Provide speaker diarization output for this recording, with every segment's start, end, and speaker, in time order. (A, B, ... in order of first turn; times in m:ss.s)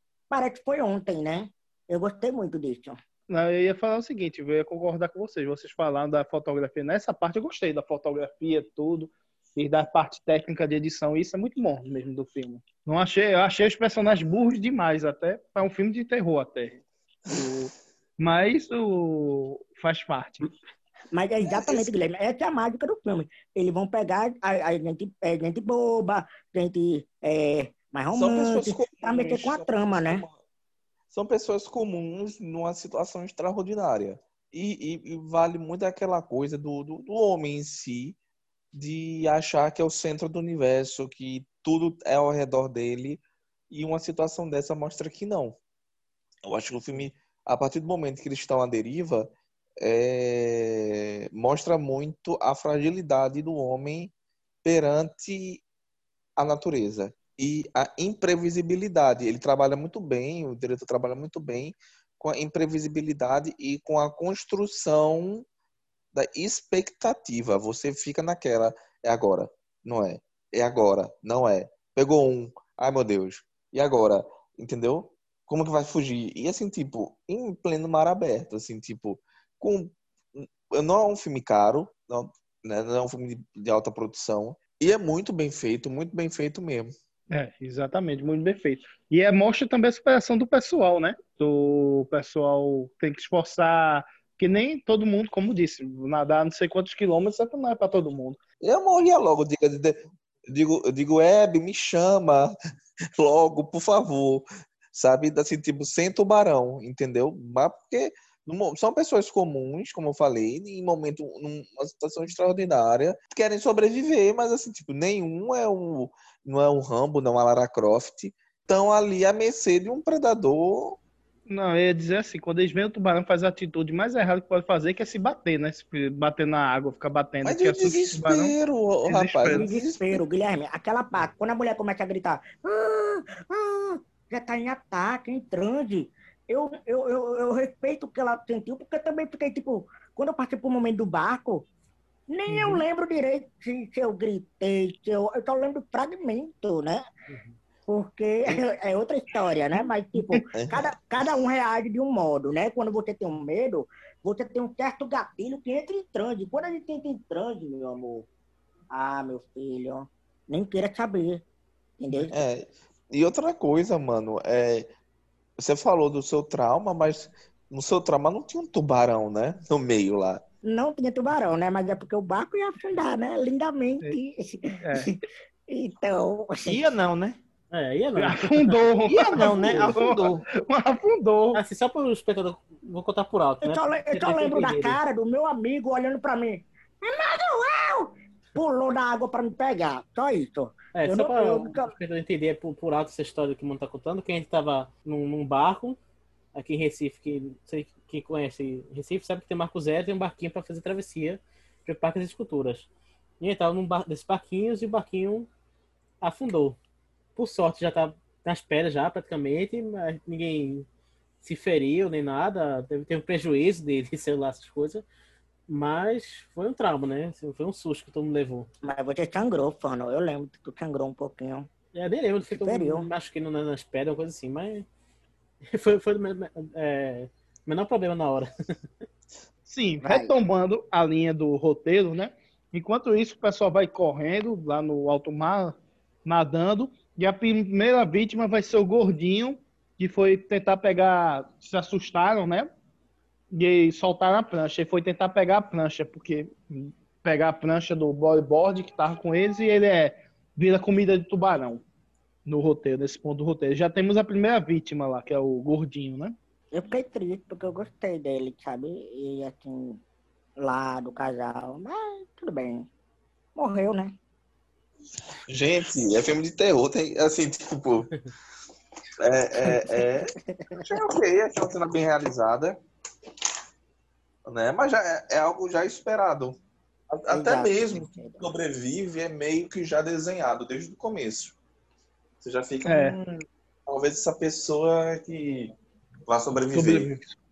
0:00.3-0:03.0 A
0:03.3-0:16.8 B
0:17.3-0:20.5 B
0:21.1-0:30.2 A
0:21.5-0:21.9 C
0:28.1-0:30.3 C
0:31.1-0:38.2 C
0:38.7-0:45.6 C
0:46.4-0:54.1 C
0:54.6-0:55.6 C
0:56.4-1:05.4 C
1:06.1-1:26.9 C
1:27.3-1:38.4 B
1:38.6-1:42.5 C
1:43.2-2:01.0 C
2:01.5-2:08.5 B
2:07.4-2:10.2 C
2:09.0-2:09.7 B
2:09.5-2:21.6 A
2:22.3-2:27.0 A
2:27.3-2:27.6 D
2:27.9-2:38.3 A
2:30.5-2:30.9 C
2:38.9-2:41.4 A
2:42.0-2:42.3 A
2:42.3-2:44.9 C
2:45.6-2:50.4 C
2:50.7-2:55.1 A
2:54.8-2:55.1 B
2:55.7-2:56.8 A
2:56.6-2:57.4 E
2:57.7-2:58.6 D
2:58.2-3:01.6 B
2:59.1-3:00.4 E
3:01.5-3:05.0 D
3:03.6-3:11.9 A
3:10.9-3:16.0 D
3:16.5-3:22.9 D
3:23.4-3:25.5 D
3:26.2-3:26.8 D
3:27.4-3:30.9 D
3:31.4-3:35.0 D
3:35.7-3:38.7 D
3:38.8-3:41.7 A
3:41.9-3:44.9 D
3:42.5-3:43.1 A
3:45.7-3:48.5 D
3:49.6-4:02.7 B
3:50.0-3:50.3 A
4:03.5-4:11.8 B
4:12.4-4:16.4 B
4:16.7-4:20.0 A
4:20.6-4:22.9 A
4:23.5-4:24.1 A
4:25.5-4:28.2 C
4:29.2-4:32.8 C
4:29.7-4:29.9 A
4:30.5-4:31.0 A
4:34.4-4:36.6 C
4:37.1-4:41.6 C
4:37.3-4:38.4 A
4:42.4-4:43.3 C
4:42.8-4:43.2 B
4:43.9-4:45.7 C
4:46.3-4:47.1 C
4:46.7-4:47.3 B